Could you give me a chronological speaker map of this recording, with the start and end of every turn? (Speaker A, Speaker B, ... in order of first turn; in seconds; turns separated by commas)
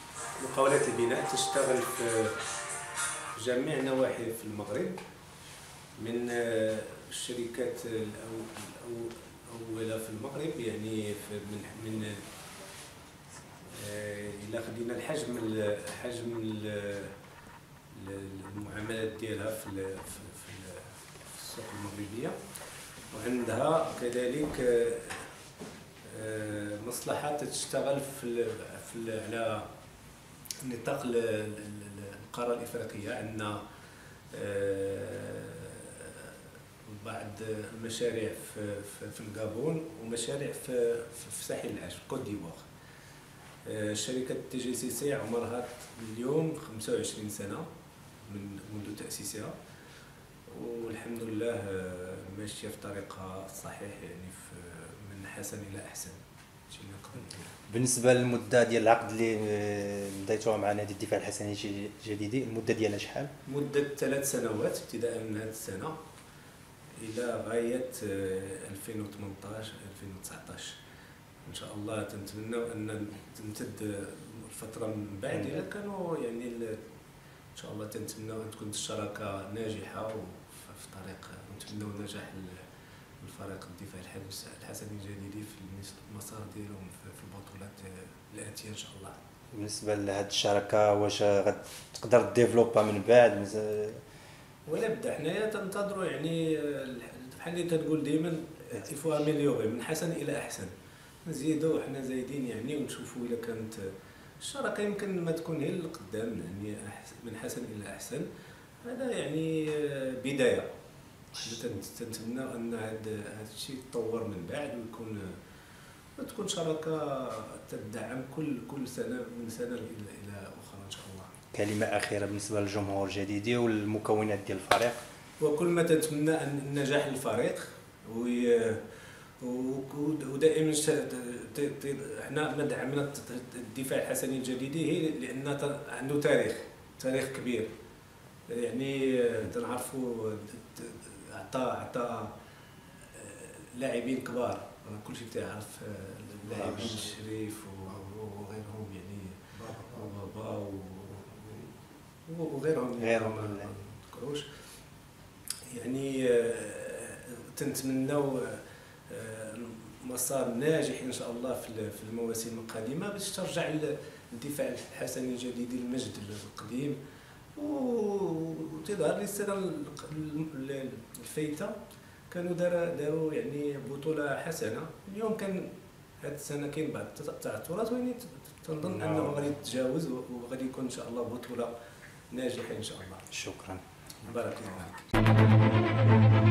Speaker A: 0.4-2.4, Speaker A: 3.4-5.0, Speaker A: 6.0-12.2, Speaker A: 13.7-17.1, Speaker A: 17.9-22.4, Speaker A: 23.1-25.3, Speaker A: 26.1-29.7, Speaker A: 30.6-33.6, Speaker A: 34.3-42.7, Speaker A: 43.7-47.7, Speaker A: 48.3-49.6, Speaker A: 50.5-57.6, Speaker B: 57.7-63.3, Speaker A: 63.5-66.0, Speaker A: 67.0-70.8, Speaker A: 71.5-76.8, Speaker A: 77.6-82.7, Speaker A: 83.2-89.2, Speaker B: 89.5-94.0, Speaker A: 94.7-100.7, Speaker A: 101.2-103.9, Speaker A: 104.4-108.3, Speaker A: 108.8-110.7, Speaker A: 111.3-115.3, Speaker A: 116.2-121.3, Speaker B: 121.5-125.0, Speaker A: 125.4-128.9, Speaker A: 129.4-137.7, Speaker A: 138.5-142.3, Speaker A: 143.1-154.5, Speaker B: 153.0-153.7, Speaker A: 155.7-167.0, Speaker A: 167.6-171.8, Speaker A: 172.3-181.7, Speaker B: 179.0-179.5, Speaker A: 182.3-183.3, Speaker B: 183.3-183.8, Speaker A: 184.2-185.1